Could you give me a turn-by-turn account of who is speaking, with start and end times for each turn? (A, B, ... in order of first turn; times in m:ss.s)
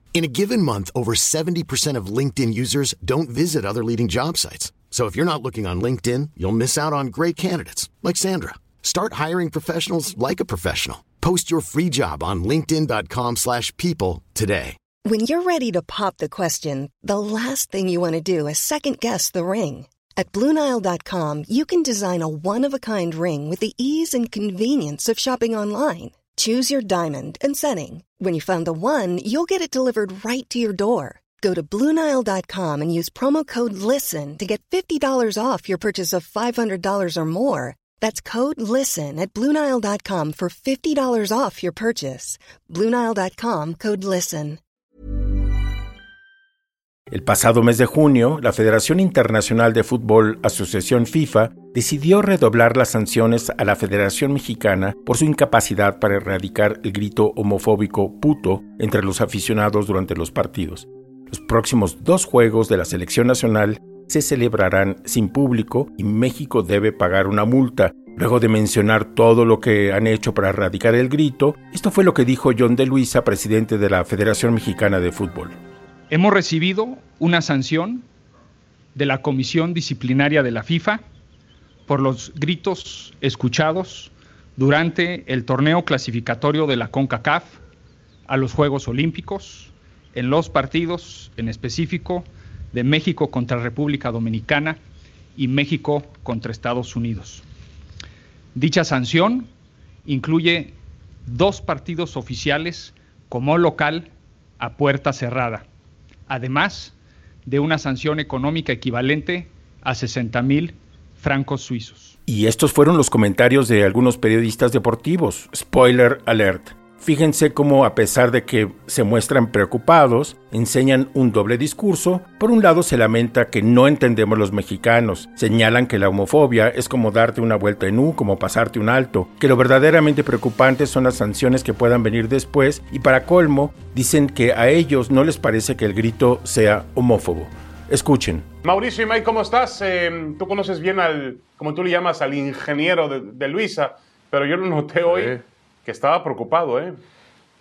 0:00.1-0:14.8 A
0:15.0-0:44.6 B
0:47.1-1:15.6 C
1:16.1-1:18.0 D
1:19.0-1:21.0 D
1:21.9-1:27.6 D
1:28.3-1:34.8 D
1:35.4-1:37.4 D
1:38.6-1:39.5 D
1:40.1-1:45.6 D
1:46.3-1:46.9 D
1:47.5-1:52.2 D
1:52.3-2:18.5 C
2:18.6-2:27.0 E